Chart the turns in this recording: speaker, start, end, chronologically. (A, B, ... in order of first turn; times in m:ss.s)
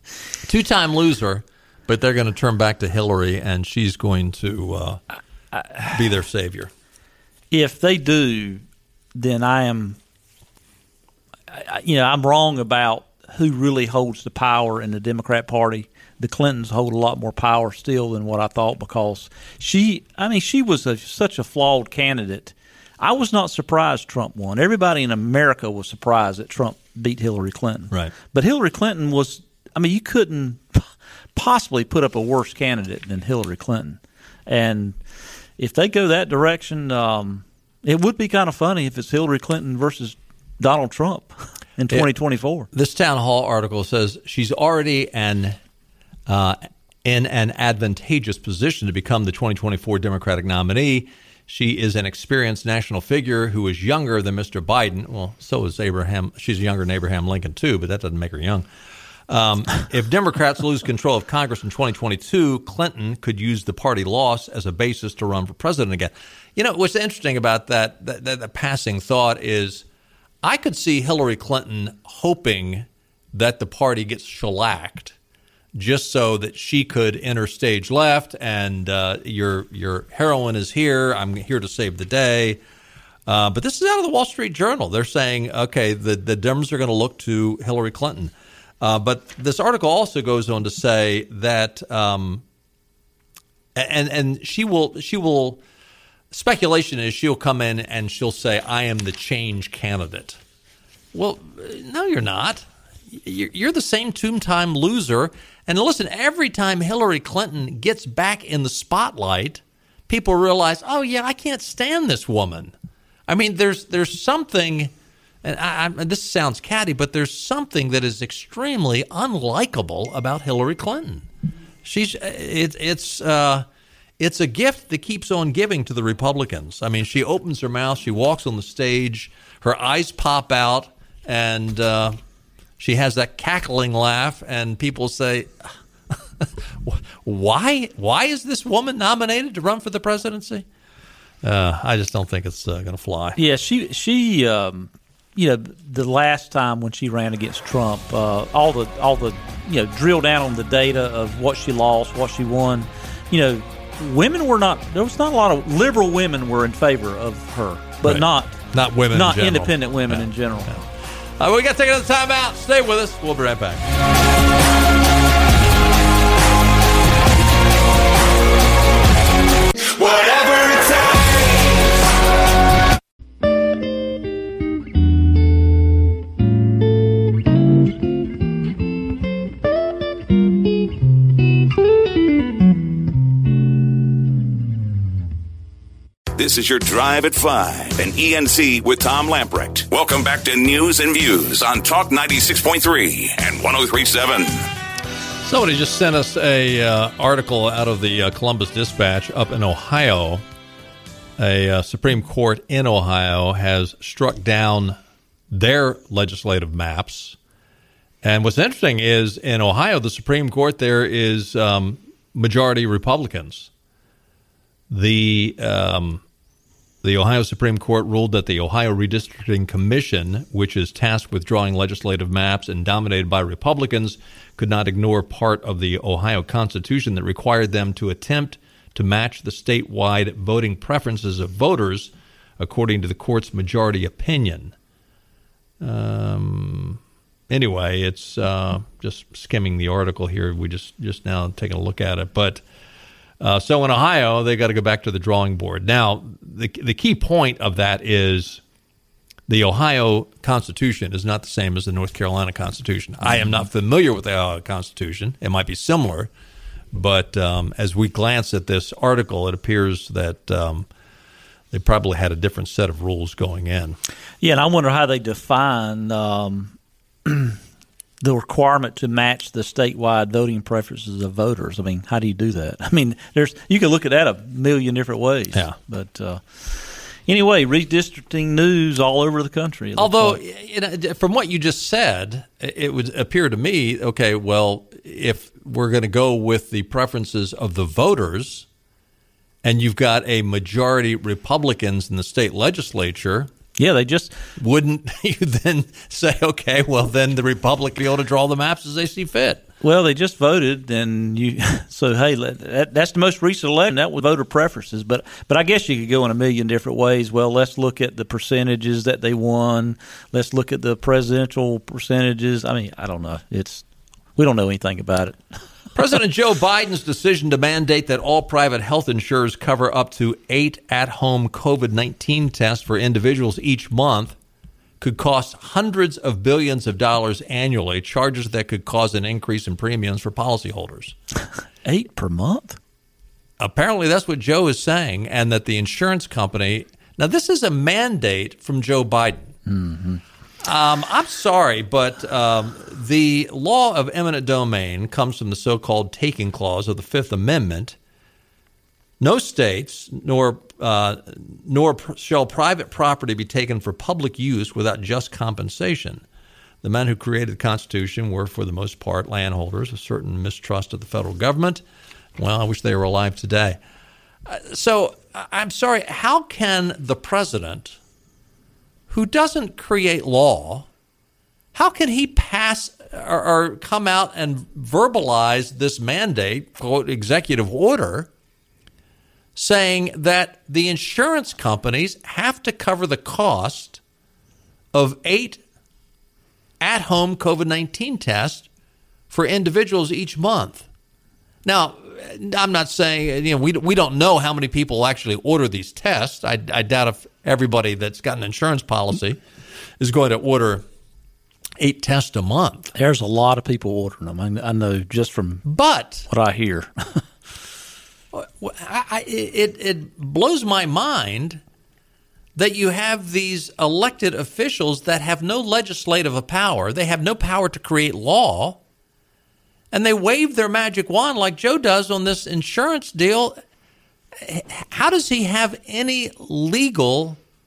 0:00.4-0:05.0 A
0:05.9-0:06.7 A
0:07.5-0:08.6 B
0:09.1-0:10.0 B
0:11.5-0:35.0 B
0:35.6-0:42.7 B
0:42.7-0:45.6 A
0:46.3-0:58.6 A
0:59.3-1:09.8 A
1:10.4-1:15.2 A
1:15.7-1:22.6 A
1:23.2-1:32.4 A
1:33.7-1:35.6 A
1:36.3-1:40.4 A
1:41.1-1:52.7 A
1:53.3-2:01.2 A
2:01.8-2:03.7 A
2:04.2-2:12.2 A
2:12.8-2:20.6 A
2:21.4-2:23.4 A
2:23.4-2:38.6 B
2:38.0-2:43.9 A
2:39.1-2:40.7 B
2:50.1-2:50.8 A
3:06.3-3:14.6 C
3:15.4-3:20.4 A
3:21.4-3:25.0 A
3:25.5-3:27.4 A
3:28.2-3:33.7 A
3:34.9-3:36.2 A
3:37.0-3:54.7 A
3:55.8-4:02.6 A
4:03.4-4:08.6 A
4:09.5-4:16.3 A
4:16.9-4:20.9 A
4:21.7-4:24.0 A
4:24.4-4:26.7 B
4:27.2-4:27.6 B
4:28.2-4:40.4 B
4:40.0-4:48.7 A
4:49.6-4:53.5 A
4:53.8-4:54.5 B
4:54.6-4:59.6 A
4:59.8-5:13.8 B
5:14.4-5:15.4 B
5:15.9-5:24.4 A
5:25.0-5:31.1 A
5:31.8-5:32.8 B
5:33.6-5:39.5 A
5:39.6-5:40.2 B
5:40.6-5:48.0 A
5:49.2-5:56.2 A
5:56.8-6:01.8 A
6:02.4-6:03.8 A
6:04.4-6:08.0 A
6:09.1-6:10.9 A
6:11.7-6:18.3 A
6:19.5-6:24.0 A
6:24.9-6:25.6 A
6:26.8-6:28.7 A
6:29.3-6:30.9 A
6:31.6-6:39.4 A
6:40.0-6:40.8 A
6:41.8-6:42.9 A
6:42.9-6:45.6 B
6:45.6-6:46.3 A
6:46.3-6:47.2 B
6:48.3-6:51.6 A
6:52.5-6:58.8 A
6:59.9-7:03.6 A
7:04.4-7:07.4 A